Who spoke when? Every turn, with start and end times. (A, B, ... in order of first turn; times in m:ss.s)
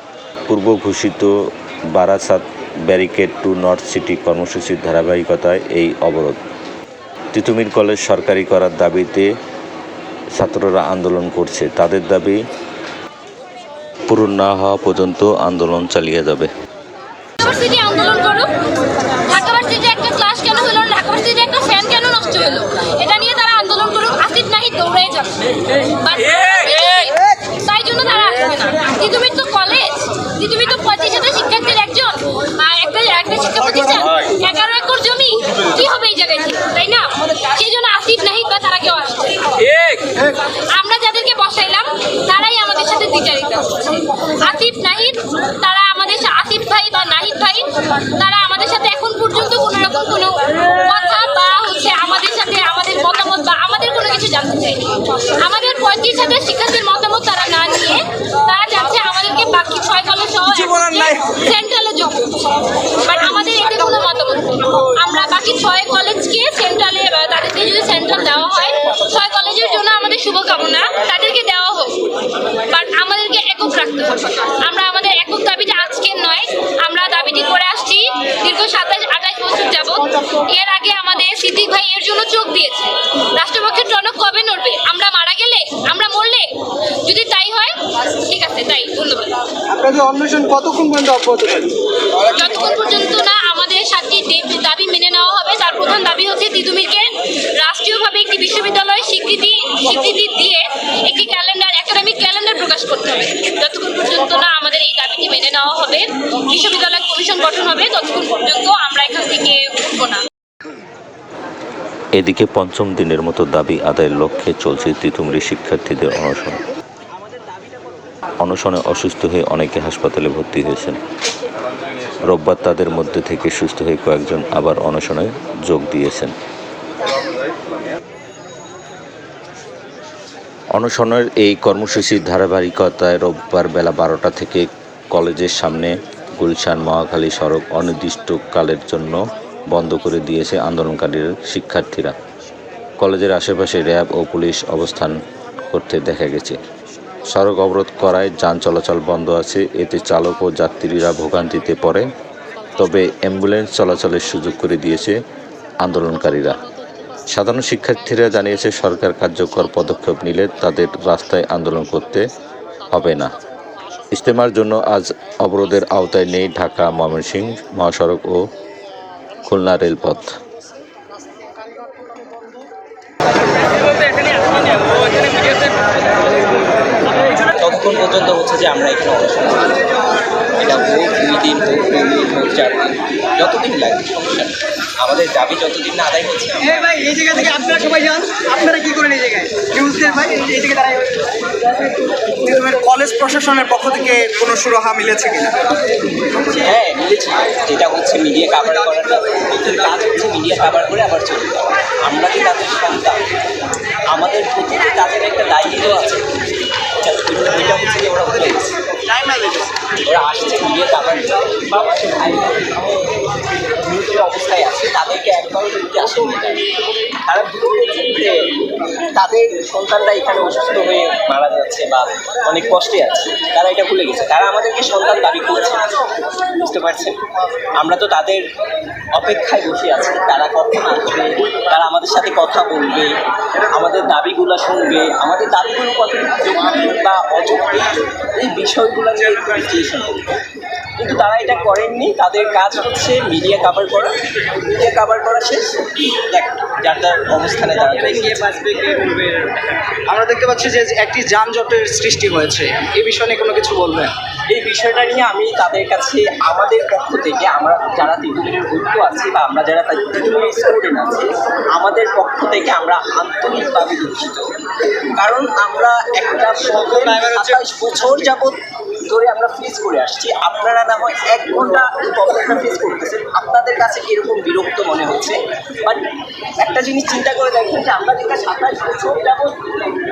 0:00.5-0:01.3 A
0:01.9-0:06.4 A
0:07.3-0:09.3 A
0:10.4-0:12.4 A
0:14.1-0:16.5 A
0:17.4-0:18.5 B
0:19.3-1:26.5 B
1:27.0-1:29.4 B
1:29.7-1:31.7 C
1:32.1-1:50.2 B
1:52.2-1:56.6 A
1:57.2-1:58.1 D
1:58.4-2:01.0 A
2:02.3-2:06.3 A
2:10.8-2:19.2 A
2:19.7-2:22.1 A
2:23.0-2:25.2 A
2:25.7-2:26.6 A
2:27.3-2:32.0 A
2:32.8-2:35.1 A
2:35.8-2:36.6 A
2:37.3-2:42.2 A
2:42.9-2:43.3 A
2:44.1-2:48.4 A
2:49.4-2:50.4 A
2:55.2-2:56.6 D
2:57.5-2:59.9 D
3:00.6-3:06.9 D
3:06.8-3:11.2 C
3:12.2-3:15.7 C
3:16.5-3:23.2 D
3:24.1-3:26.4 D
3:27.0-3:28.8 D
3:29.1-3:29.9 C
3:30.0-3:33.2 D
3:33.8-3:38.5 D
3:39.1-3:47.2 D
3:47.8-3:48.4 D
3:49.1-3:53.1 D
3:53.7-4:00.2 D
4:01.0-4:08.6 D
4:08.4-4:09.6 C
4:10.1-4:14.2 C
4:14.5-4:24.5 D
4:25.2-4:36.1 D
4:36.6-4:39.7 D